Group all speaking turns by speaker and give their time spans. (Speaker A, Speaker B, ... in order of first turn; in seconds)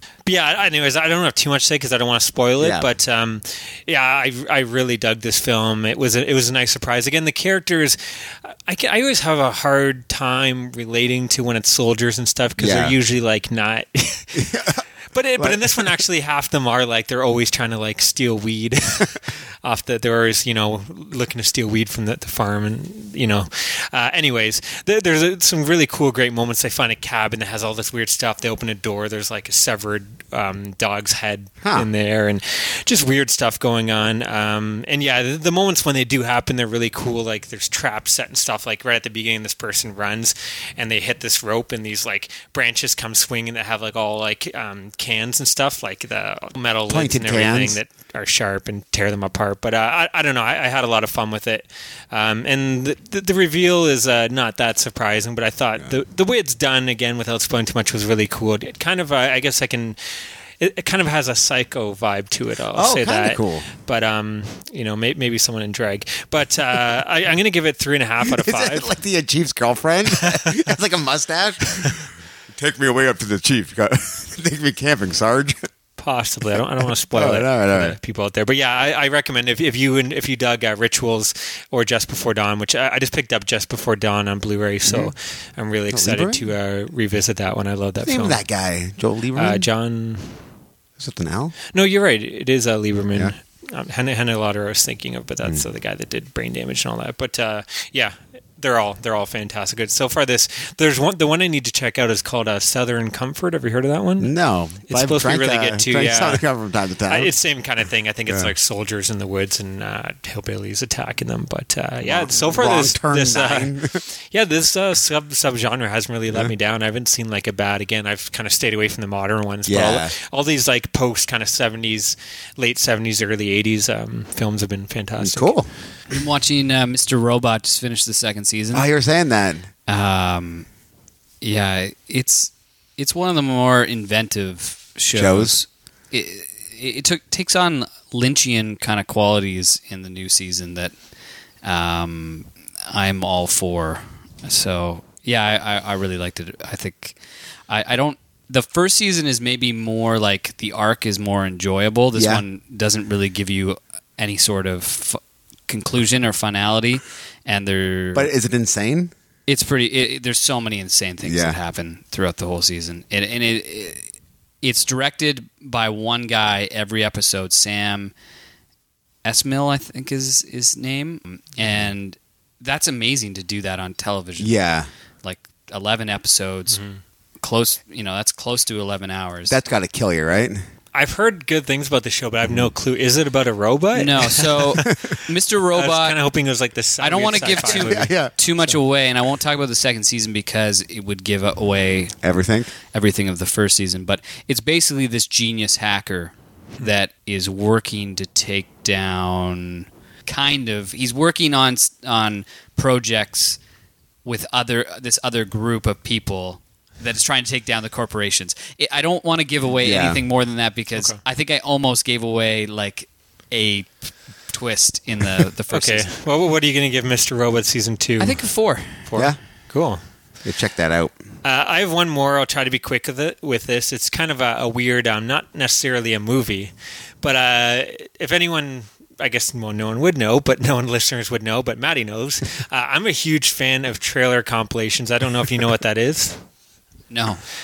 Speaker A: 0.2-14.5, 15.1-60.0, 60.6-68.9, 70.2-70.7, 76.0-88.4, 89.3-90.4, 91.7-104.3, 104.9-106.4, 107.1-125.6, 176.7-177.0, 180.9-185.0, 185.7-188.1, 215.7-218.5, 219.0-220.0, 221.4-236.4
Speaker B: 2.6-2.9, 12.6-12.9, 14.3-14.8, 15.4-16.0, 31.6-31.9, 46.9-47.8, 62.7-63.7, 68.2-75.6, 77.1-78.0, 84.8-85.1, 85.9-86.5, 88.0-89.7, 91.0-91.5, 104.2-107.3, 112.0-114.0, 119.7-120.1, 125.2-125.7, 128.7-129.7, 135.1-135.6, 152.1-152.4, 158.1-159.1, 161.2-161.6, 174.4-174.9, 179.5-180.6, 184.8-185.1, 187.4-188.3, 192.2-192.7, 209.8-210.2, 220.4-221.1
Speaker C: 126.1-128.9, 129.9-130.7, 131.4-140.9, 141.6-158.3, 159.5-164.1, 164.6-168.1, 169.2-174.6, 175.2-176.8, 177.4-179.6, 183.9-186.2, 187.0-192.2, 192.9-203.6, 204.2-216.1, 218.2-219.1, 237.1-237.4